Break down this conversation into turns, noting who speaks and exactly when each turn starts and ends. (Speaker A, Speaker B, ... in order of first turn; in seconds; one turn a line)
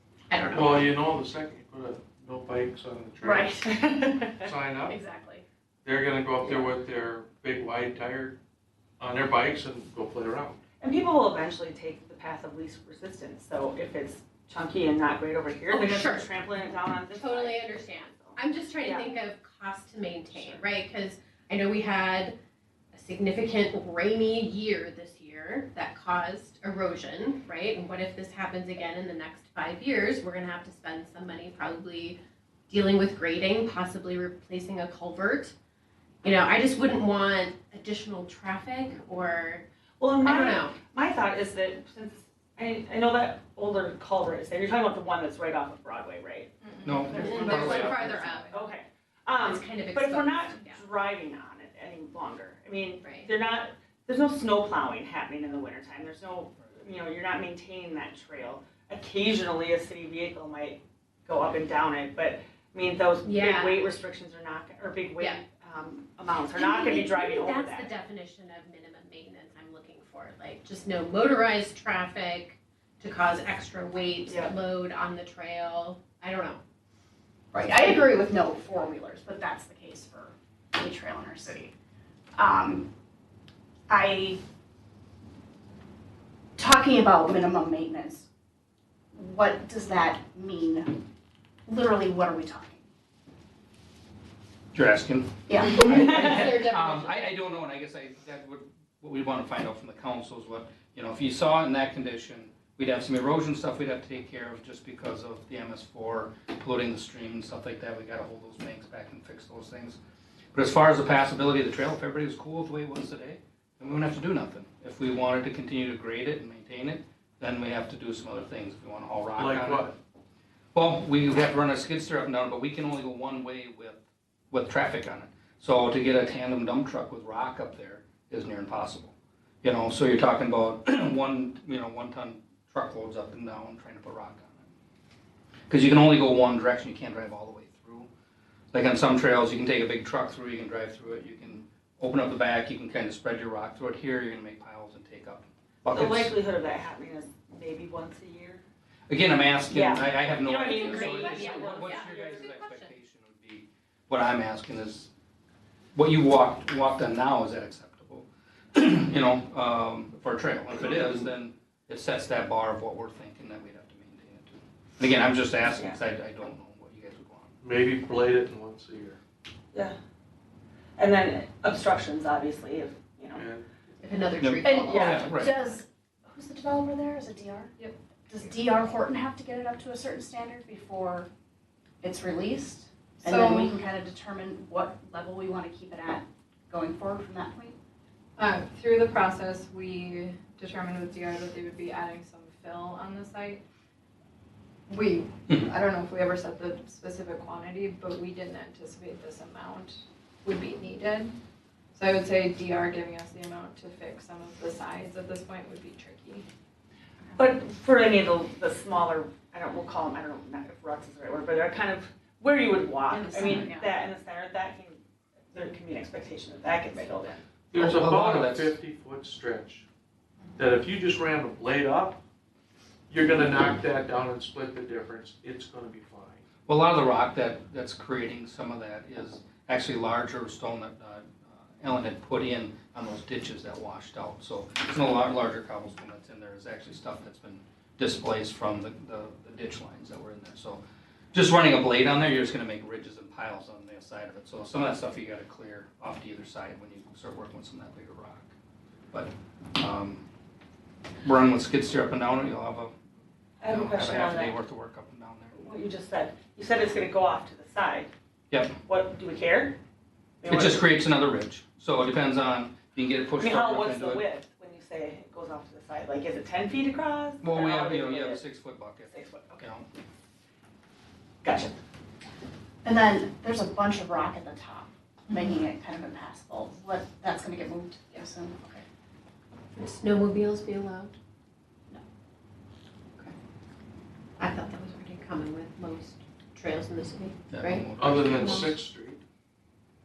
Speaker A: 0.3-0.9
Speaker B: 0.5-3.9
Speaker C: 3.2-3.7
Speaker D: 3.7-4.5
Speaker B: 4.4-5.0
Speaker C: 4.9-5.4
Speaker B: 5.8-8.4
Speaker B: 9.0-10.6
Speaker D: 10.8-19.1
Speaker A: 15.7-16.3
Speaker A: 17.1-22.4
Speaker D: 20.3-20.7
Speaker A: 22.9-35.5
Speaker A: 36.2-39.6
Speaker D: 40.0-46.5
Speaker A: 40.2-40.8
Speaker E: 46.6-48.6
Speaker F: 46.9-48.4
Speaker D: 47.1-47.9
Speaker A: 47.1-48.6
Speaker D: 48.5-67.9
Speaker A: 49.4-50.8
Speaker A: 53.0-53.3
Speaker A: 63.2-64.0
Speaker A: 66.5-76.6
Speaker D: 74.3-74.5
Speaker C: 77.5-81.7
Speaker C: 82.3-82.9
Speaker C: 83.9-84.4
Speaker C: 86.6-88.3
Speaker C: 89.1-91.0
Speaker C: 91.7-92.8
Speaker F: 94.7-110.0
Speaker C: 95.5-95.8
Speaker A: 95.7-97.4
Speaker F: 110.5-120.0
Speaker B: 119.4-120.0
Speaker F: 120.7-124.0
Speaker F: 124.5-134.7
Speaker F: 135.7-138.1
Speaker F: 138.7-146.3
Speaker D: 145.9-148.6
Speaker F: 149.1-155.1
Speaker D: 149.7-152.5
Speaker A: 150.7-152.9
Speaker F: 155.9-167.5
Speaker D: 165.7-166.0
Speaker B: 167.6-169.2
Speaker D: 171.0-173.4
Speaker B: 173.3-173.7
Speaker A: 174.0-175.3
Speaker F: 174.4-175.6
Speaker C: 174.6-177.7
Speaker D: 174.9-175.3
Speaker E: 177.8-178.6
Speaker C: 178.3-181.3
Speaker C: 182.0-187.8
Speaker E: 183.2-183.7
Speaker E: 188.4-193.6
Speaker E: 194.9-201.3
Speaker E: 201.9-206.5
Speaker D: 207.4-215.0
Speaker C: 213.1-213.9
Speaker D: 215.5-217.4
Speaker B: 217.7-219.9
Speaker F: 217.7-218.7
Speaker B: 220.6-222.2
Speaker B: 223.1-226.4
Speaker F: 226.7-240.8
Speaker F: 241.3-248.5
Speaker F: 249.1-250.2
Speaker F: 251.2-252.9
Speaker D: 253.6-254.6
Speaker F: 253.7-255.6
Speaker D: 255.6-258.1
Speaker F: 258.5-258.8
Speaker D: 258.9-259.8
Speaker D: 260.4-260.8
Speaker F: 260.5-264.2
Speaker D: 263.4-268.4
Speaker F: 267.4-269.9
Speaker D: 269.1-269.7
Speaker D: 271.4-271.7
Speaker C: 272.8-278.6
Speaker A: 278.1-278.8
Speaker A: 279.8-281.1
Speaker A: 284.4-288.7
Speaker F: 287.5-288.8
Speaker B: 288.0-289.2